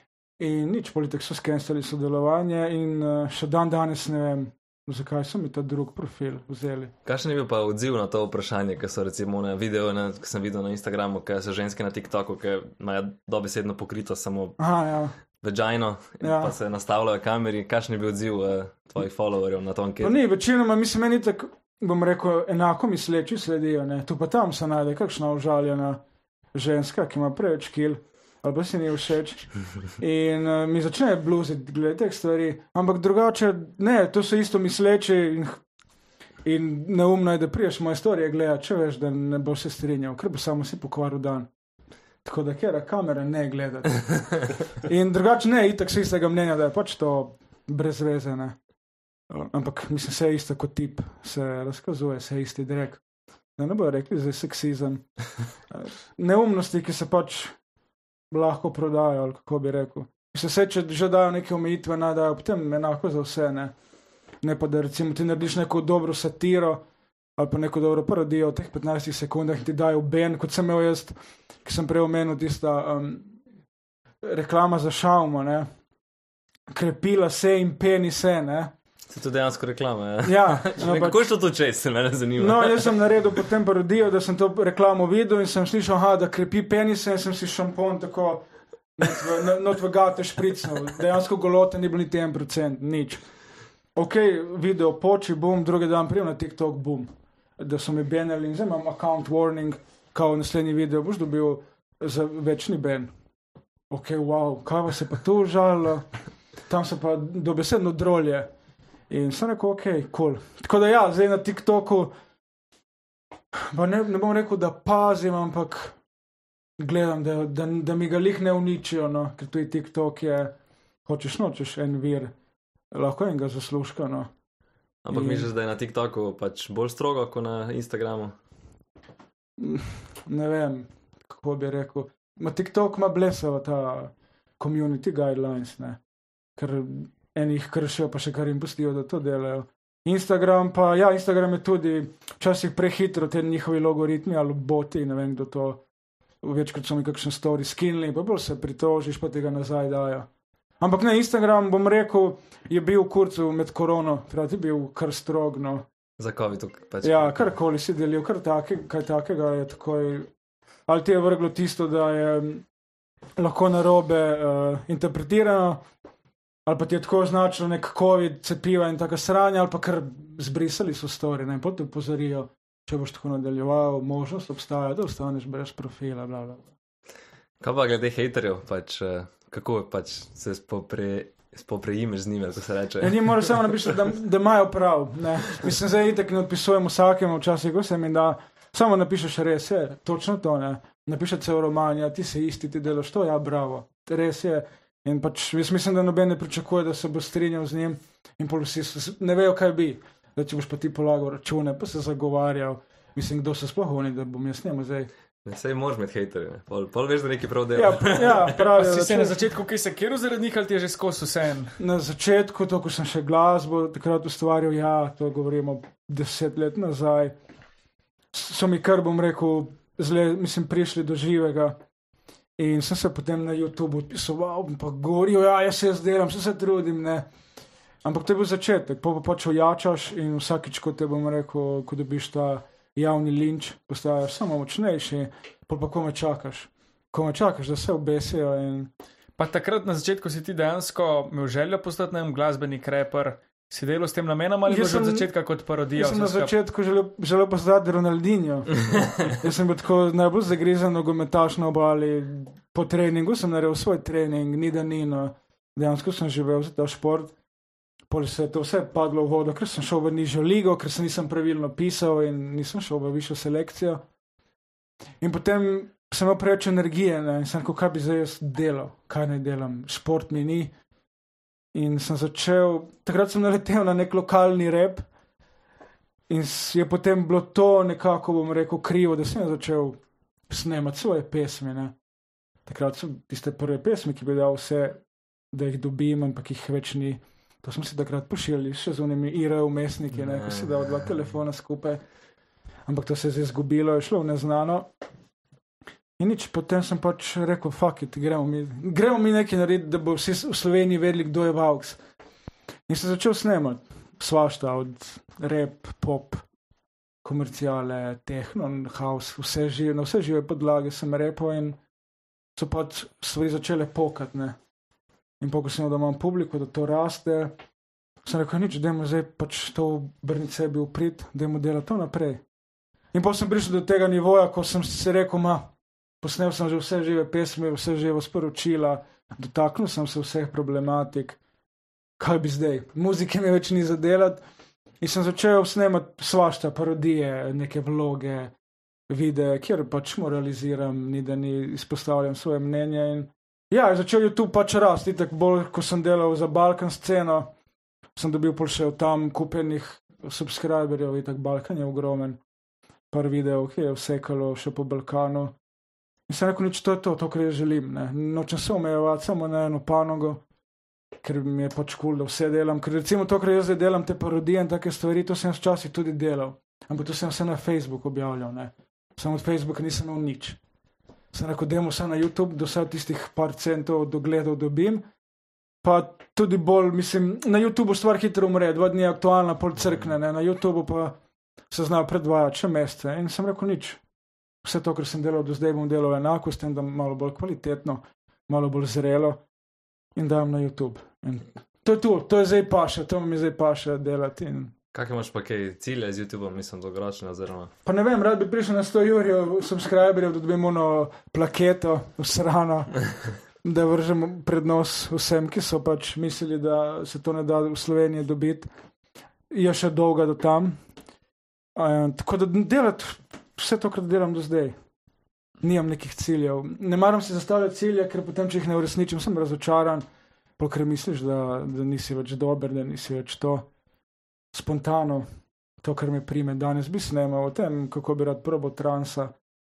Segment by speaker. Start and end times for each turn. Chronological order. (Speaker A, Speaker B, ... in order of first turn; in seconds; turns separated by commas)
Speaker A: 0.4-6.9, Speaker B: 7.0-14.6, Speaker A: 14.6-15.2, Speaker B: 15.4-20.2, Speaker A: 16.2-16.5, Speaker A: 20.0-26.0, Speaker A: 26.5-35.6, Speaker A: 36.5-41.5, Speaker A: 42.2-48.6, Speaker A: 49.3-53.0, Speaker A: 53.6-57.6, Speaker A: 58.3-63.8, Speaker A: 64.4-66.8, Speaker A: 67.4-73.4, Speaker A: 74.2-75.7, Speaker A: 76.7-78.7, Speaker B: 79.1-83.0, Speaker A: 80.2-81.2, Speaker A: 82.4-93.3, Speaker A: 94.0-103.1, Speaker A: 103.9-106.1, Speaker A: 106.7-108.5, Speaker A: 109.1-112.1, Speaker A: 113.5-116.0, Speaker A: 116.8-120.5, Speaker A: 121.1-122.3, Speaker A: 122.9-124.3, Speaker B: 125.0-128.3, Speaker A: 125.1-125.5, Speaker A: 129.6-136.0, Speaker A: 136.6-145.8, Speaker A: 146.4-150.3, Speaker A: 150.8-155.8, Speaker B: 156.2-157.5, Speaker A: 157.0-160.3, Speaker A: 160.9-162.7, Speaker A: 163.4-165.8, Speaker A: 166.7-176.7, Speaker B: 177.6-183.2, Speaker A: 183.0-205.1, Speaker B: 205.4-208.5, Speaker A: 207.8-209.4, Speaker C: 208.6-211.8, Speaker A: 211.8-217.3, Speaker A: 218.3-221.8, Speaker A: 222.6-227.3, Speaker A: 228.0-238.9, Speaker C: 239.4-246.5, Speaker A: 244.7-245.3, Speaker A: 246.0-257.3, Speaker A: 258.1-264.0, Speaker A: 265.2-270.7, Speaker A: 271.7-275.1, Speaker A: 276.3-281.9, Speaker A: 282.7-285.0, Speaker A: 285.5-292.0, Speaker B: 290.1-290.9, Speaker A: 292.9-294.9, Speaker A: 296.2-302.0, Speaker A: 302.9-306.5, Speaker A: 307.2-311.8, Speaker A: 312.6-314.6, Speaker A: 315.4-317.6, Speaker A: 318.2-322.4, Speaker A: 323.1-325.7, Speaker A: 326.2-331.4, Speaker A: 332.2-334.4, Speaker A: 335.0-338.5, Speaker A: 339.1-347.5, Speaker A: 348.2-352.4, Speaker A: 353.1-355.6, Speaker A: 356.3-360.4, Speaker A: 361.2-370.6, Speaker A: 371.3-375.0, Speaker A: 375.8-381.2, Speaker A: 381.7-384.0, Speaker A: 384.6-389.4, Speaker A: 390.1-394.7, Speaker B: 394.9-397.7, Speaker A: 397.9-408.7, Speaker A: 409.5-410.8, Speaker A: 411.8-414.8, Speaker A: 415.6-420.1, Speaker A: 420.6-423.7, Speaker A: 424.5-425.3, Speaker A: 425.8-429.4